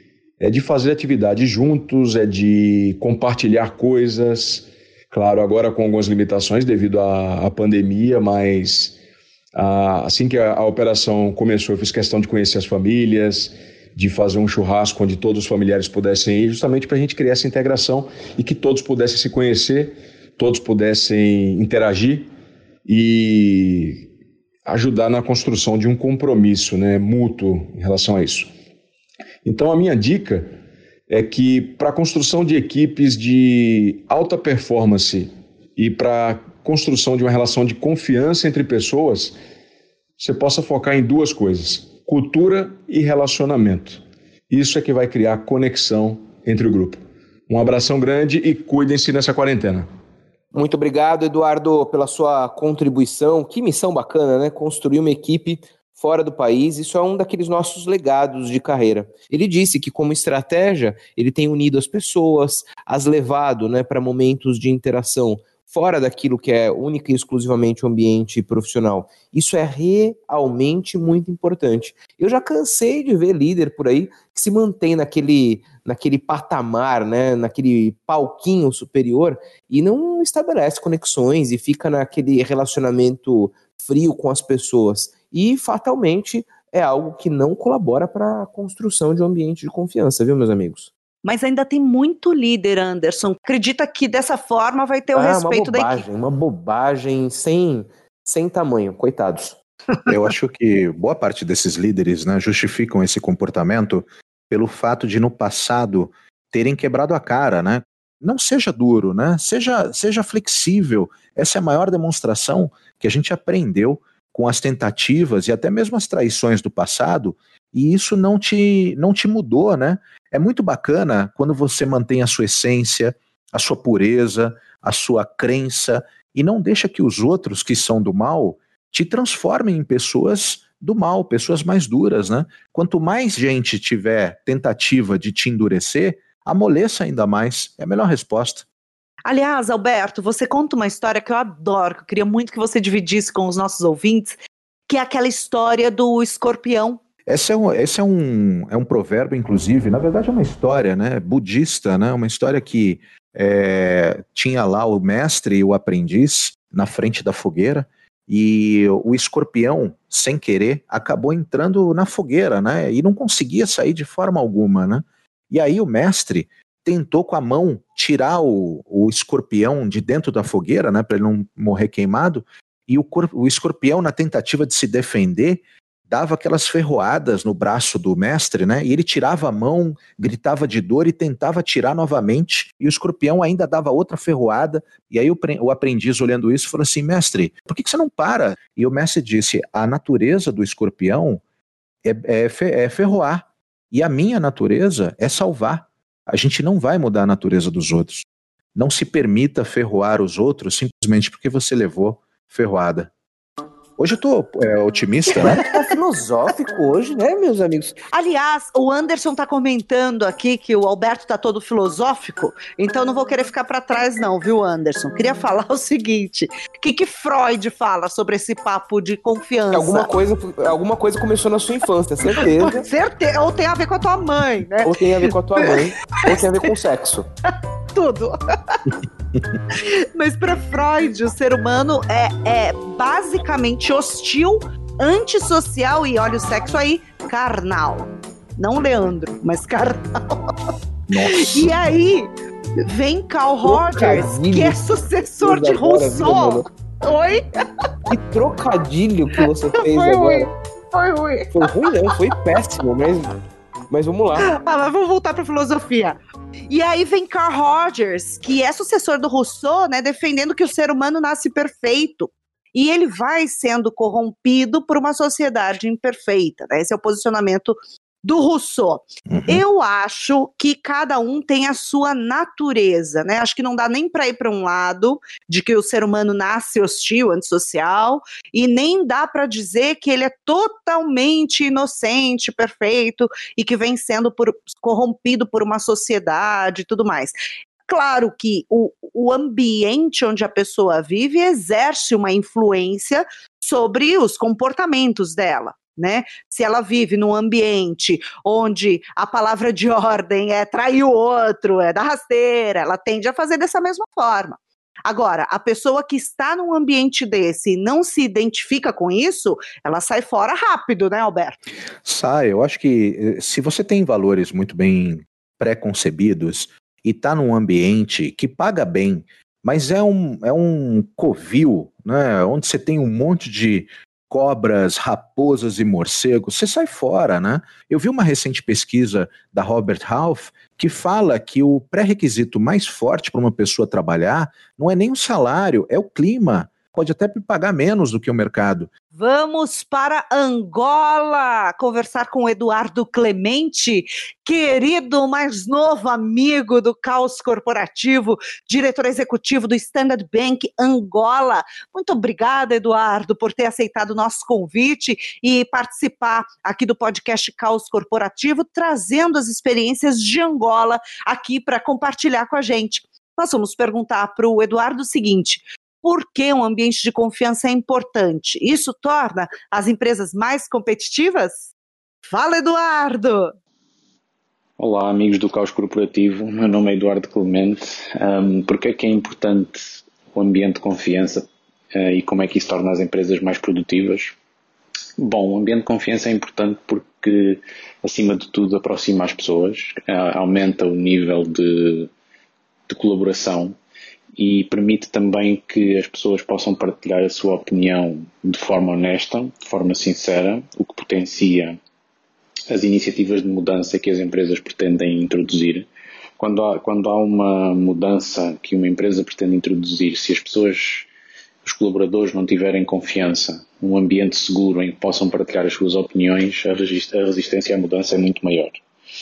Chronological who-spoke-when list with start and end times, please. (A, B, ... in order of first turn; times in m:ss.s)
0:00.4-0:09.0 A
0:09.5-0:22.3 A
0:22.8-0:24.1 A
0:24.6-0:28.5 A
0:29.4-0:30.5 A
0:31.1-0:39.4 A
0:40.2-0:49.9 A
0:50.5-1:30.9 B
1:31.2-1:36.0 C
1:35.1-1:39.6 B
1:40.0-2:18.6 D
2:19.2-2:24.4 C
2:24.9-2:27.0 C
2:27.2-3:11.4 D
3:12.0-3:23.1 D
3:24.0-3:25.6 D
3:25.3-3:28.0 B
3:28.1-3:40.1 C
3:39.7-3:42.8 B
3:42.4-3:45.0 C
3:44.8-3:47.3 B
3:47.9-3:48.8 C
3:49.7-4:00.4 C
4:01.1-4:01.7 D
4:01.2-4:07.4 C
4:03.6-4:04.8 B
4:05.4-4:06.6 B
4:08.1-4:10.5 B
4:09.4-4:12.1 C
4:11.5-4:13.4 B
4:13.9-4:14.5 B
4:14.4-4:16.2 C
4:16.7-5:11.6 C
4:29.3-4:29.6 D
5:12.0-5:38.9 D
5:39.1-6:11.7 C
6:12.3-6:13.5 C
6:14.8-6:24.3 E
6:25.2-6:32.1 E
6:32.9-6:33.8 E
6:34.4-6:41.8 E
6:42.7-6:45.9 E
6:46.4-6:51.1 E
6:51.6-6:58.8 E